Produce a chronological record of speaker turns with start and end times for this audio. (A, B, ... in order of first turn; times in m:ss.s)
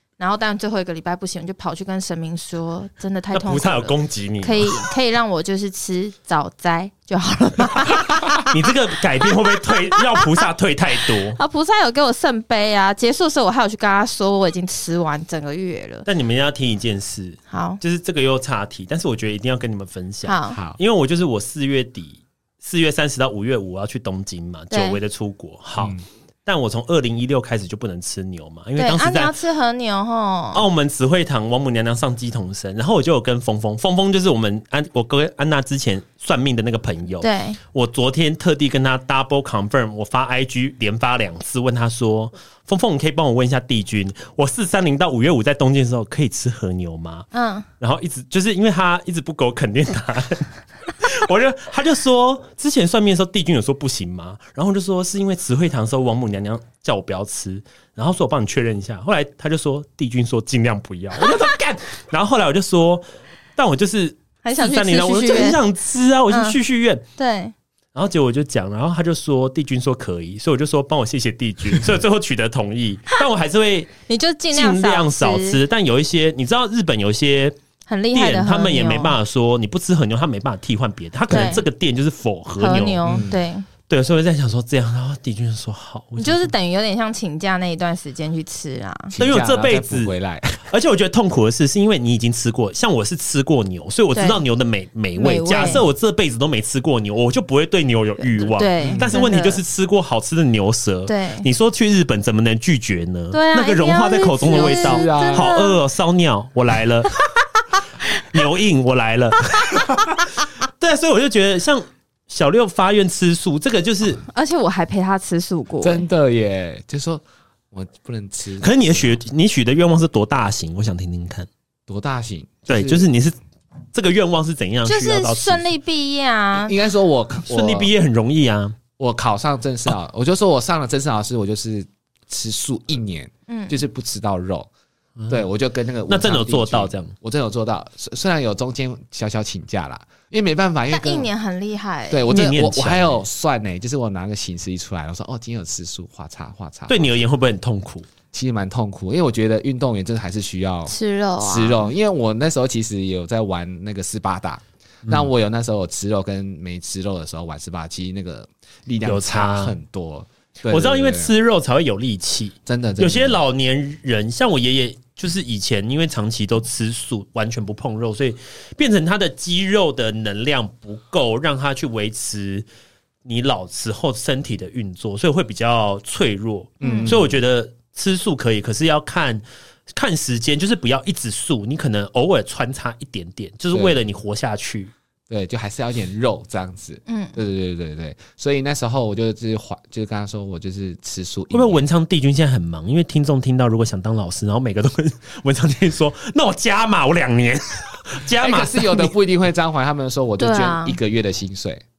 0:00.2-0:08.5 A
0:03.3-0:04.9 B
0:08.3-0:11.4 B
0:09.9-0:10.3 A
0:11.3-0:16.0 A
0:16.0-0:29.3 B
0:17.5-0:17.8 A
0:20.2-0:20.6 A
0:20.5-0:20.8 C
0:24.7-0:25.0 A
0:25.8-0:26.0 C
0:28.8-0:30.6 A
0:30.5-0:47.3 B
0:37.2-0:37.6 A
0:47.3-0:47.6 A
0:47.8-1:03.0 B
1:03.6-1:07.0 B
1:04.4-1:05.6 A
1:06.3-1:06.6 A
1:07.2-1:07.5 A
1:07.9-1:13.9 B
1:14.1-1:15.6 A
1:14.5-1:17.6 B
1:17.9-1:19.2 A
1:18.1-1:23.2 B
1:21.3-1:21.6 A
1:21.3-1:21.5 C
1:22.6-1:23.7 A
1:23.0-1:23.4 C
1:23.9-1:26.5 B
1:26.2-1:29.1 A
1:29.1-1:30.7 C
1:29.2-1:30.1 B
1:30.7-1:47.2 B
1:34.1-1:34.4 A
1:35.2-1:35.8 A
1:35.6-1:35.8 C
1:38.2-1:39.6 A
1:38.8-1:39.2 C
1:41.1-1:41.5 A
1:43.3-1:45.8 A
1:44.4-1:45.5 C
1:48.1-1:54.2 B
1:54.3-1:56.0 A
1:55.8-1:59.2 C
1:58.6-2:01.5 B
2:01.9-2:03.1 C
2:02.7-2:03.4 B
2:03.9-2:05.6 B
2:04.8-2:06.7 A
2:06.5-2:07.9 C
2:07.4-2:08.8 B
2:09.0-2:14.7 C
2:13.5-2:13.8 A
2:15.3-2:21.3 C
2:16.1-2:17.1 B
2:20.9-2:22.3 A
2:22.1-2:27.1 C
2:22.3-2:23.2 B
2:26.9-2:28.1 B
2:28.3-2:41.3 C
2:30.9-2:31.9 A
2:39.0-2:39.8 B
2:40.7-2:52.6 B
2:42.6-2:43.4 C
2:53.2-3:04.9 B
2:56.8-2:57.3 C
2:56.8-2:57.2 A
3:03.7-3:04.0 C
3:05.3-3:11.8 C
3:07.0-3:07.4 A
3:11.5-3:19.1 B
3:18.3-3:21.8 C
3:20.4-3:21.0 A